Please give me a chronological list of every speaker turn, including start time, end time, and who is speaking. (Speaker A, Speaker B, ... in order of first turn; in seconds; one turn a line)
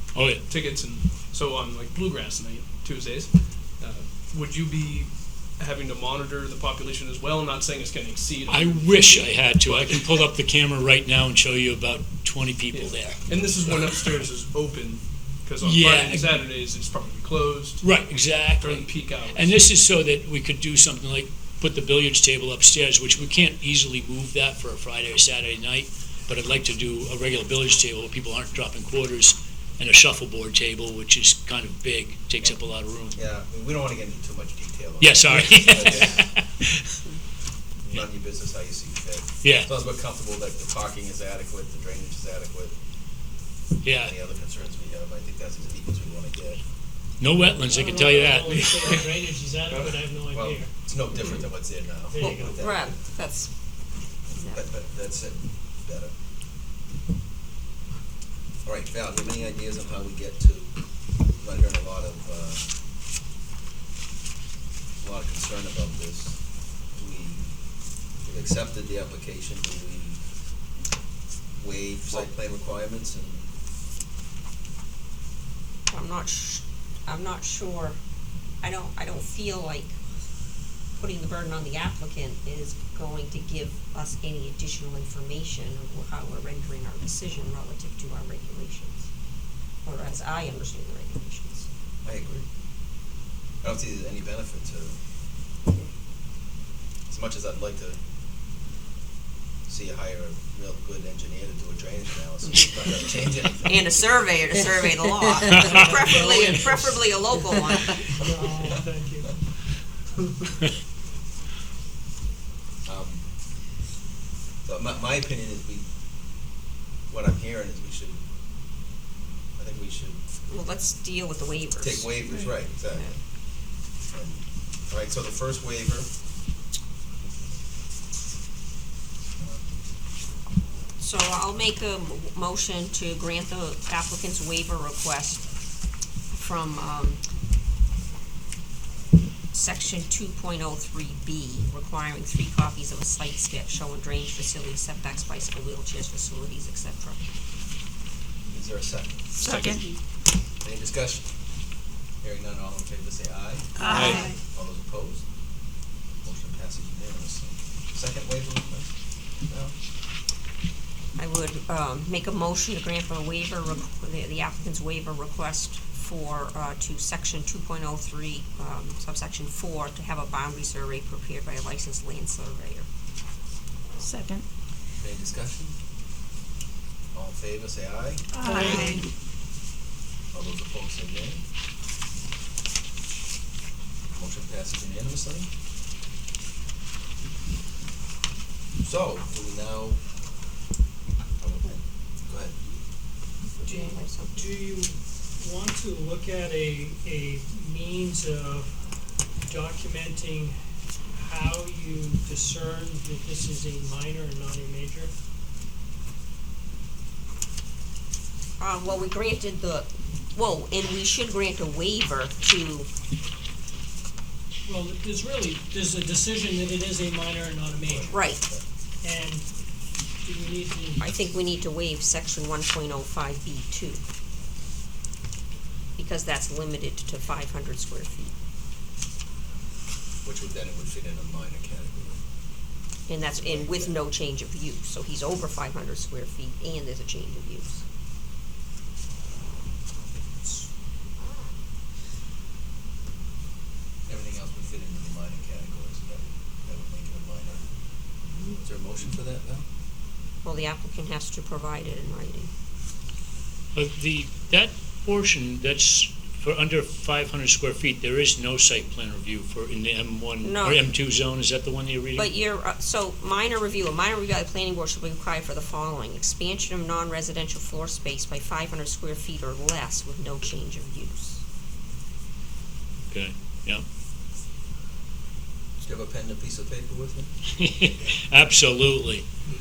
Speaker A: 0.1-0.4
Speaker B: 0.4-10.2
Speaker A: 8.5-14.2
Speaker B: 12.7-17.8
Speaker A: 15.6-16.5
Speaker A: 17.8-33.2
Speaker B: 18.6-19.8
Speaker C: 33.1-36.3
Speaker A: 35.0-36.9
Speaker B: 35.8-36.1
Speaker C: 37.8-42.7
Speaker A: 39.4-39.7
Speaker A: 43.8-44.1
Speaker C: 43.9-46.6
Speaker A: 47.2-49.1
Speaker D: 47.6-50.7
Speaker C: 49.8-53.0
Speaker D: 52.1-52.6
Speaker E: 52.2-53.5
Speaker C: 54.3-56.1
Speaker E: 54.3-54.6
Speaker C: 58.6-60.7
Speaker C: 61.4-62.7
Speaker C: 65.0-66.4
Speaker C: 66.9-67.5
Speaker C: 68.2-70.2
Speaker C: 71.6-73.5
Speaker E: 75.9-78.0
Speaker E: 78.6-80.0
Speaker E: 81.0-89.1
Speaker E: 89.8-91.7
Speaker C: 92.0-92.5
Speaker C: 93.6-95.0
Speaker C: 97.1-98.0
Speaker C: 99.7-103.8
Speaker E: 103.6-108.0
Speaker D: 105.5-107.0
Speaker D: 108.0-109.3
Speaker C: 112.8-113.2
Speaker C: 114.6-115.8
Speaker C: 117.1-118.2
Speaker C: 119.6-120.2
Speaker E: 120.5-122.2
Speaker C: 121.8-123.1
Speaker E: 122.8-123.2
Speaker C: 124.1-126.1
Speaker C: 127.2-127.5
Speaker C: 129.4-129.6
Speaker E: 131.0-135.4
Speaker E: 136.4-137.2
Speaker E: 139.5-147.2
Speaker C: 148.5-149.3
Speaker B: 149.4-149.9
Speaker F: 149.4-149.9
Speaker C: 150.6-151.2
Speaker C: 152.2-155.2
Speaker F: 153.8-154.3
Speaker B: 153.8-154.3
Speaker C: 156.2-158.9
Speaker C: 159.4-159.7
Speaker E: 161.2-172.9
Speaker F: 174.0-174.4
Speaker C: 175.0-175.7
Speaker C: 177.1-178.2
Speaker F: 178.3-179.0
Speaker E: 178.6-178.9
Speaker C: 180.3-181.4
Speaker C: 184.1-185.5
Speaker C: 188.8-190.0
Speaker C: 191.4-192.6
Speaker E: 193.6-194.5
Speaker D: 193.7-198.7
Speaker D: 199.5-200.6
Speaker D: 201.2-205.1
Speaker E: 208.6-212.9
Speaker D: 214.7-218.2
Speaker C: 217.8-218.6
Speaker E: 218.1-218.4
Speaker D: 219.0-219.4
Speaker D: 220.2-221.1
Speaker E: 221.0-224.0
Speaker E: 226.0-228.3
Speaker C: 230.2-232.2
Speaker E: 233.1-237.8
Speaker C: 233.3-233.9
Speaker E: 241.2-241.5
Speaker C: 244.1-247.6
Speaker C: 248.5-249.6
Speaker E: 250.4-252.5
Speaker A: 253.7-262.3
Speaker E: 260.4-260.9
Speaker E: 262.1-271.4
Speaker A: 273.1-273.8
Speaker C: 275.8-277.3
Speaker A: 277.6-279.2